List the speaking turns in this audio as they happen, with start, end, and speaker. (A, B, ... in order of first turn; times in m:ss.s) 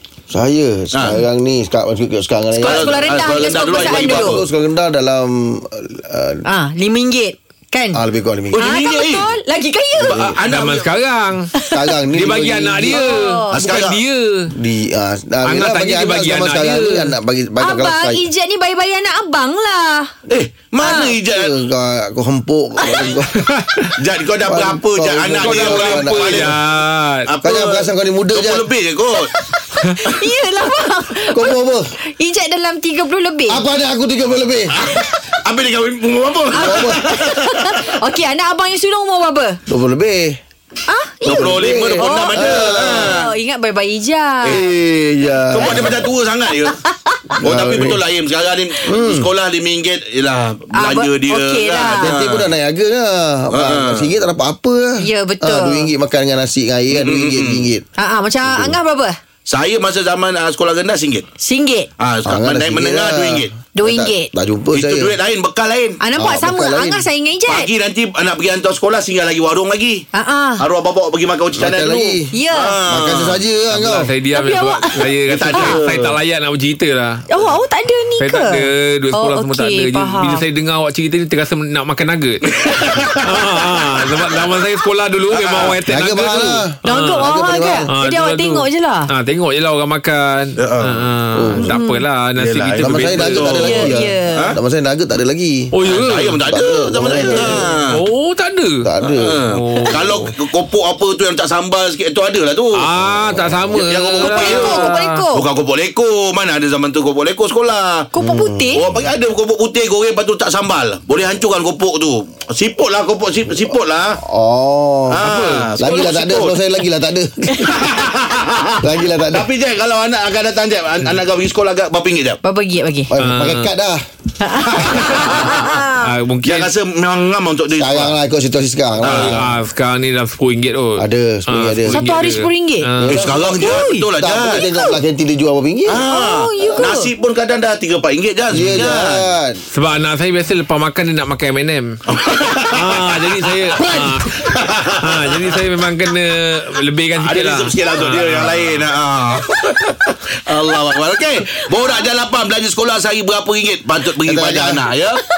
0:00.3-0:06.4 A
0:00.9-0:01.2 B
0:02.5-0:04.4 C
0:02.6-0:04.4 B
0:06.4-0:08.0 C
0:07.9-0:08.6 A
0:08.5-0:09.3 B
0:08.6-0:10.2 C
0:10.0-0:10.9 B
0:10.1-0:10.4 A
0:10.3-0:11.5 D
0:11.7-0:13.1 A
0:12.1-0:14.5 D
0:12.9-0:13.8 C
0:13.5-0:14.0 B
0:14.6-0:18.2 A
0:15.4-0:17.1 D
0:17.6-0:20.1 C
0:20.3-0:21.5 B
0:20.8-0:21.2 C
0:21.0-0:23.3 A
0:23.4-0:23.9 D
0:24.0-0:26.6 B
0:24.4-0:26.6 A
0:25.4-0:27.2 D
0:27.3-0:29.3 B
0:27.4-0:28.7 A
0:29.3-0:31.6 C
0:31.3-0:31.8 A
0:32.2-0:33.6 C
0:33.5-0:34.7 A
0:34.9-0:37.8 B
0:36.5-0:37.0 A
0:36.6-0:39.6 C
0:39.7-0:40.4 A
0:40.9-0:44.6 C
0:41.2-0:43.3 B
0:41.2-0:43.2 A
0:44.5-0:46.1 A
0:45.5-0:46.8 B
0:46.6-0:47.1 C
0:47.4-0:48.0 A
0:47.4-0:52.5 B
0:48.8-0:49.3 A
0:50.8-0:52.2 C
0:52.0-0:57.8 A
0:53.5-0:54.1 B
0:55.0-0:55.9 C
0:56.9-0:57.7 B
0:58.0-0:59.2 C
0:58.4-0:58.8 A
0:59.5-1:01.2 B
1:01.4-1:01.9 C
1:02.0-1:03.5 B
1:02.2-1:05.1 A
1:03.7-1:04.3 C
1:04.7-1:06.0 B
1:06.0-1:07.7 C
1:06.2-1:07.0 A
1:07.5-1:10.0 B
1:10.1-1:10.6 C
1:10.6-1:13.4 B
1:11.6-1:12.3 A
1:12.3-1:12.8 C
1:12.9-1:14.1 A
1:13.7-1:17.3 D
1:14.3-1:15.8 C
1:15.3-1:16.2 B
1:17.3-1:20.4 C
1:18.2-1:27.2 D
1:22.5-1:24.6 B
1:25.3-1:25.8 B
1:25.8-1:27.9 A
1:26.8-1:29.1 C
1:27.9-1:33.6 D
1:30.6-1:31.1 B
1:31.3-1:31.7 A
1:31.6-1:32.0 C
1:32.4-1:34.6 B
1:32.8-1:35.7 A
1:33.5-1:34.5 C
1:35.7-1:36.5 D
1:35.8-1:38.1 B
1:36.5-1:37.8 A
1:37.2-1:37.7 C
1:37.9-1:38.8 D
1:38.8-1:39.4 A
1:39.0-1:42.9 B
1:39.5-1:40.2 D
1:42.8-1:45.3 D
1:43.7-1:48.1 B
1:44.2-1:45.4 C
1:48.1-1:48.8 C
1:48.2-1:48.8 A
1:48.7-1:54.2 B
1:54.2-1:57.8 A
1:55.1-1:56.6 B
1:55.2-1:55.7 D
1:57.8-2:02.4 B
1:58.8-1:59.4 A
2:02.4-2:03.1 C
2:03.1-2:04.0 A
2:03.2-2:03.7 D
2:04.4-2:06.1 C
2:04.7-2:05.8 B
2:06.0-2:06.7 D
2:06.4-2:08.1 B
2:07.8-2:09.4 A
2:09.0-2:09.4 B
2:09.1-2:13.2 D
2:11.0-2:12.0 A
2:11.9-2:14.1 C
2:13.0-2:16.0 A
2:13.1-2:14.6 B
2:15.9-2:19.3 B
2:16.0-2:17.1 C
2:18.5-2:19.6 A
2:19.7-2:21.9 D
2:22.1-2:23.8 B
2:22.7-2:24.4 D
2:24.3-2:25.6 B
2:25.0-2:28.9 D
2:27.1-2:35.2 B
2:34.2-2:34.9 A